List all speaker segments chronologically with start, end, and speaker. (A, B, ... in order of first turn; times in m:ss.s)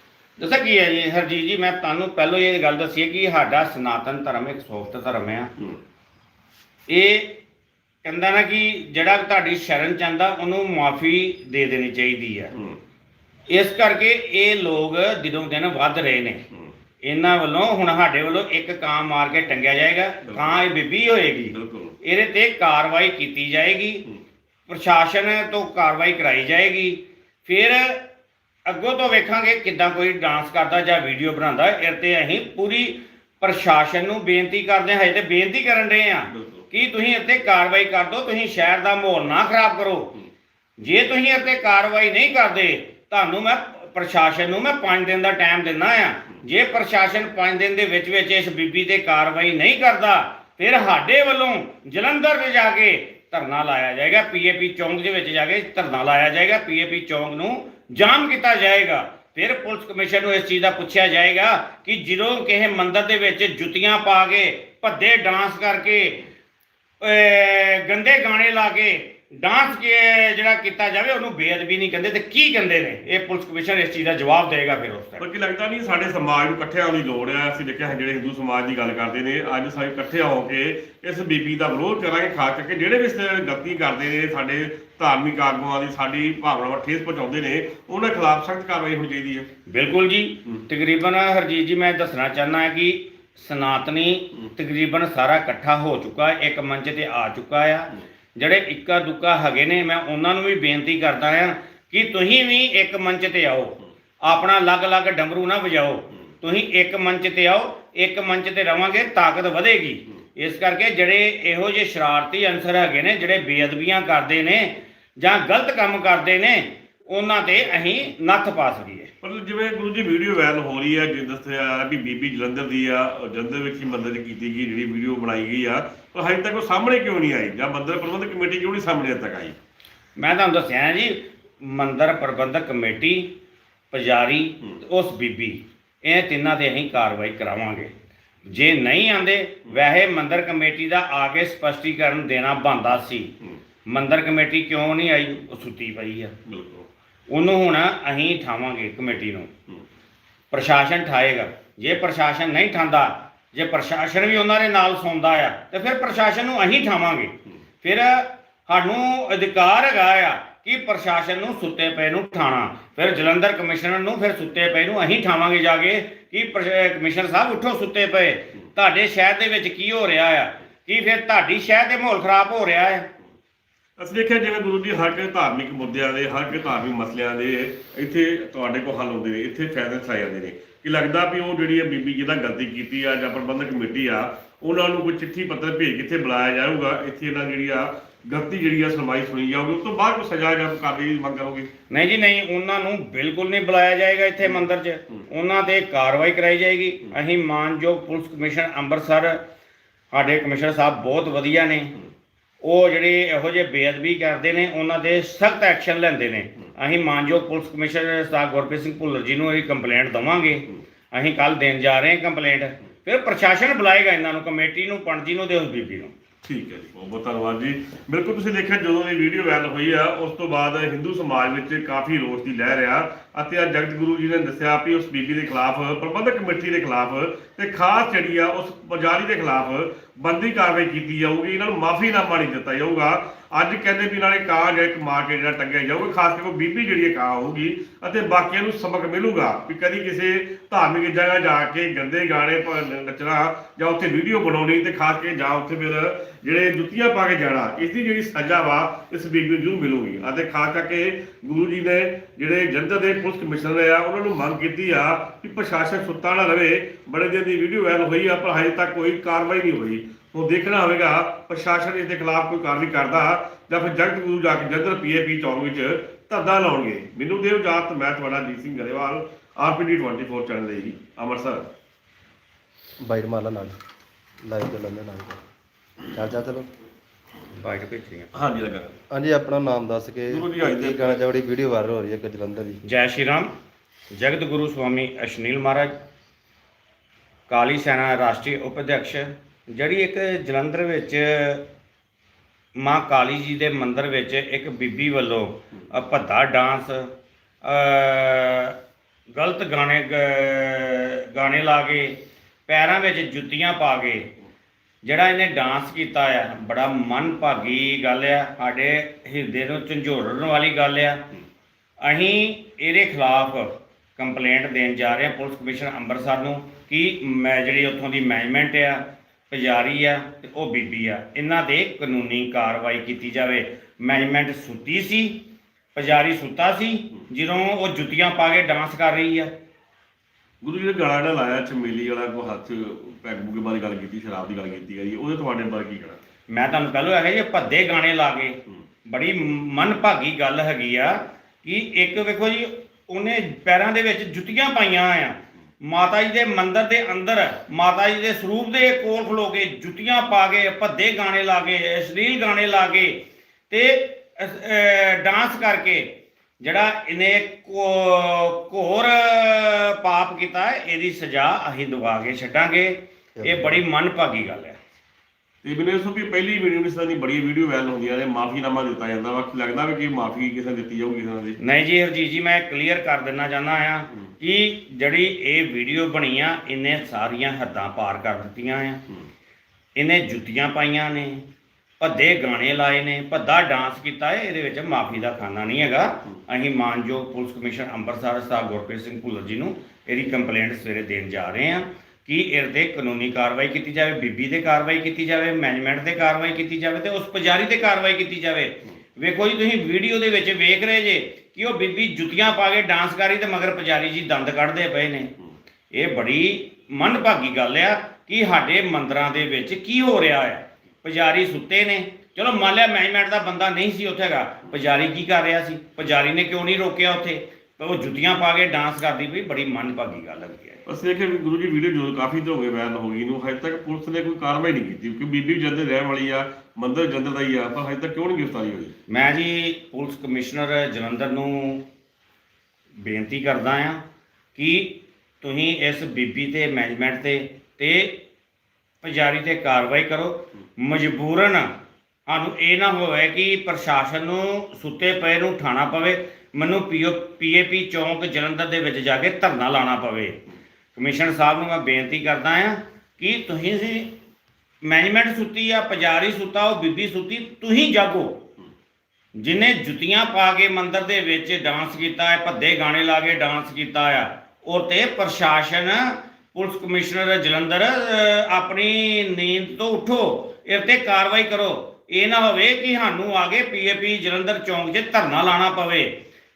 0:00.4-0:05.5 A
0:06.9-0:07.4 A
0:08.0-0:12.5 A
0:13.5-0:16.4 A
0:17.0-0:24.0 A
0:20.3-0:20.6 B
0:21.5-0:22.0 B
0:24.7-0:28.0 A
0:28.7-0:40.2 A
0:36.3-0:36.6 B
0:40.8-1:06.3 A
1:07.0-1:15.2 A
1:15.2-1:29.5 B
1:29.7-1:59.1 A
1:59.2-2:09.6 B
2:10.2-2:13.4 A
2:13.9-2:17.9 A
2:18.5-2:23.3 A
2:23.9-2:26.4 A
2:26.5-2:26.9 B
2:27.3-2:29.5 A
2:30.5-2:53.1 A
2:54.0-3:11.7 B
3:11.9-3:19.4 A
3:20.1-3:22.0 A
3:22.6-3:36.1 A
3:36.4-4:31.7 B
4:33.0-4:33.8 C
4:34.4-4:35.4 C
4:36.1-4:36.7 C
4:37.6-4:38.3 A
4:38.3-4:39.0 B
4:39.1-4:42.8 C
4:40.3-4:41.2 B
4:42.8-4:43.5 A
4:44.1-4:45.9 A
4:47.5-4:51.6 A
4:52.8-4:57.1 A
4:57.6-4:58.8 A
4:59.3-5:04.3 A
5:05.0-5:11.2 A
5:12.0-5:25.4 A
5:26.0-5:29.5 A
5:30.6-5:36.2 B
5:36.5-6:04.8 A
6:03.4-6:03.8 C
6:05.6-6:11.6 B
6:11.6-6:19.0 A
6:20.0-6:21.4 A
6:22.0-6:45.3 A
6:45.9-7:00.8 A
7:00.9-7:09.0 B
7:09.1-7:11.8 A
7:13.0-7:14.0 A
7:14.6-7:18.2 A
7:19.0-7:21.7 A
7:22.3-7:30.4 A
7:31.0-7:34.1 A
7:34.8-7:38.5 A
7:39.4-7:56.2 A